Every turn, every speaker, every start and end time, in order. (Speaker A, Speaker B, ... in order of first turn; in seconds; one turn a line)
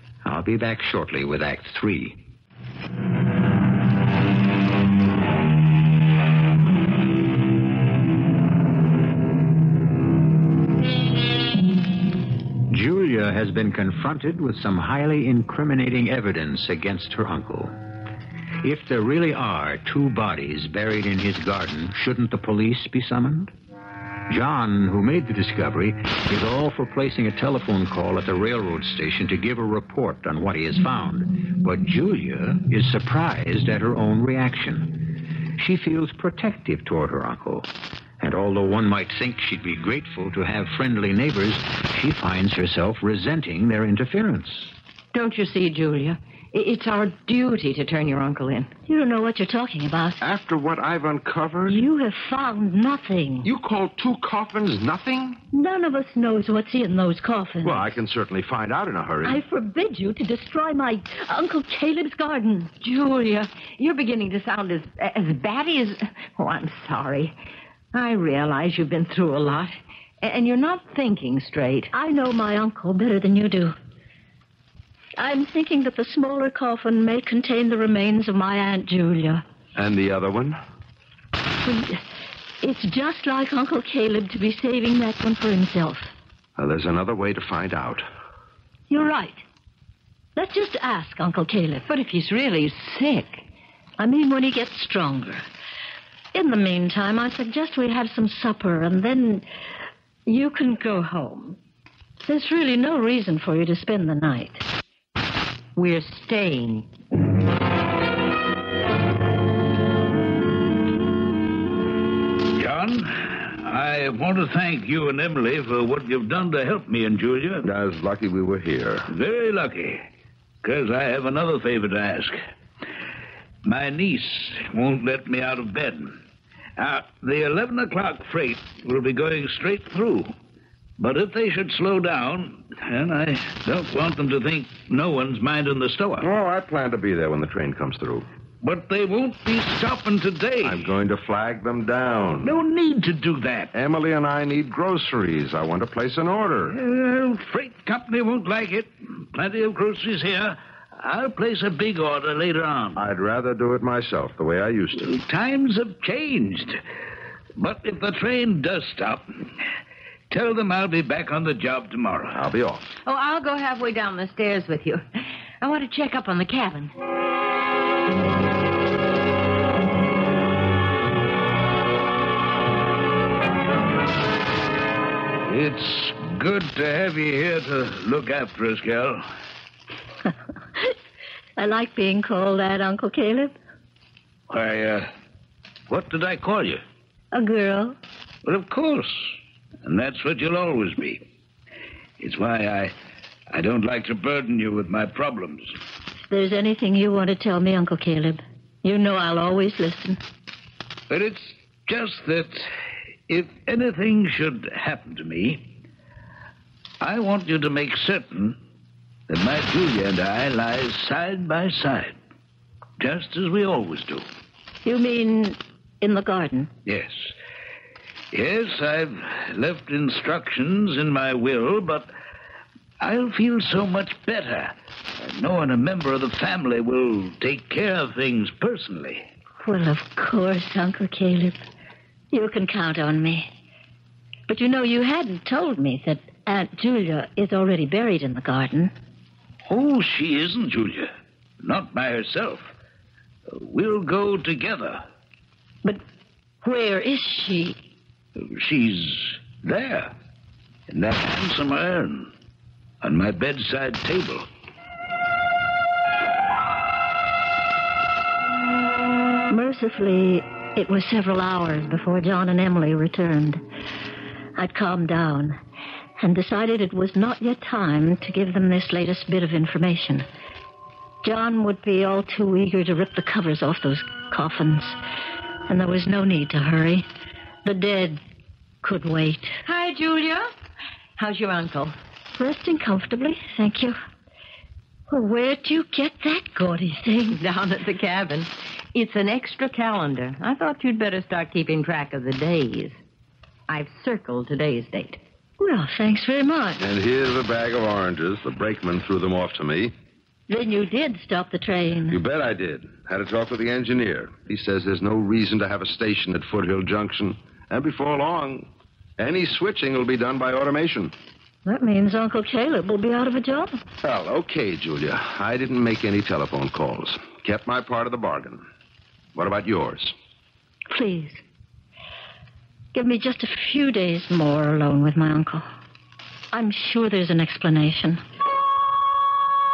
Speaker A: 0.2-2.2
Speaker A: 12.7-17.8
Speaker A: 18.6-23.5
Speaker A: 24.3-37.7
Speaker A: 38.2-44.7
Speaker B: 45.1-48.7
Speaker C: 48.9-50.2
Speaker D: 50.2-51.8
Speaker C: 51.7-53.5
Speaker D: 53.5-55.4
Speaker C: 55.5-58.0
Speaker D: 57.6-59.4
Speaker C: 59.2-62.7
Speaker B: 62.8-67.4
Speaker B: 67.9-71.9
Speaker C: 71.9-73.8
Speaker C: 75.2-79.4
Speaker D: 79.8-80.6
Speaker C: 81.7-82.1
Speaker C: 82.6-86.1
Speaker D: 86.6-88.0
Speaker C: 88.9-89.4
Speaker C: 90.4-91.9
Speaker B: 91.9-93.5
Speaker C: 94.0-95.4
Speaker C: 96.3-99.5
Speaker C: 100.3-101.6
Speaker C: 102.2-104.7
Speaker B: 105.8-106.9
Speaker E: 112.6-117.7
Speaker D: 117.6-119.1
Speaker E: 119.1-120.0
Speaker E: 120.6-122.4
Speaker E: 123.6-126.2
Speaker E: 126.8-130.3
Speaker E: 131.0-136.3
Speaker D: 136.2-138.3
Speaker E: 138.6-140.9
Speaker D: 140.6-142.6
Speaker E: 142.4-143.7
Speaker D: 143.7-146.8
Speaker E: 146.7-153.0
Speaker D: 153.0-155.2
Speaker E: 155.0-156.8
Speaker E: 157.6-159.4
Speaker E: 160.3-162.4
Speaker D: 162.3-162.9
Speaker B: 163.1-165.0
Speaker B: 165.6-166.9
Speaker E: 175.5-179.2
Speaker C: 181.6-183.6
Speaker E: 184.5-185.1
Speaker E: 185.9-186.8
Speaker C: 187.3-188.0
Speaker E: 188.4-189.3
Speaker E: 189.8-191.2
Speaker E: 192.2-192.9
Speaker E: 193.5-195.7
Speaker C: 196.2-200.2
Speaker E: 201.1-202.7
Speaker E: 203.3-205.6
Speaker E: 207.0-208.6
Speaker E: 209.3-212.2
Speaker E: 213.0-214.3
Speaker C: 214.8-216.7
Speaker E: 216.9-217.3
Speaker E: 218.3-222.1
Speaker E: 223.0-229.2
Speaker C: 229.6-231.6
Speaker C: 232.3-233.5
Speaker C: 234.5-238.9
Speaker E: 239.7-241.1
Speaker E: 241.6-242.6
Speaker E: 243.5-245.0
Speaker C: 246.6-247.8
Speaker E: 248.4-250.1
Speaker E: 250.9-252.3
Speaker E: 253.0-254.5
Speaker C: 259.5-263.6
Speaker C: 264.6-265.6
Speaker C: 266.2-270.3
Speaker C: 271.2-275.0
Speaker C: 275.7-277.1
Speaker C: 277.6-278.2
Speaker C: 278.8-279.6
Speaker B: 279.6-280.5
Speaker B: 281.2-282.0
Speaker C: 282.4-284.0
Speaker C: 285.1-287.4
Speaker B: 287.3-293.0
Speaker B: 293.7-295.2
Speaker C: 295.6-296.8
Speaker D: 296.8-299.9
Speaker C: 300.5-302.2
Speaker D: 302.1-311.1
Speaker C: 311.7-313.8
Speaker D: 314.0-318.7
Speaker D: 319.4-320.1
Speaker C: 320.9-321.4
Speaker C: 322.9-325.7
Speaker C: 326.5-328.2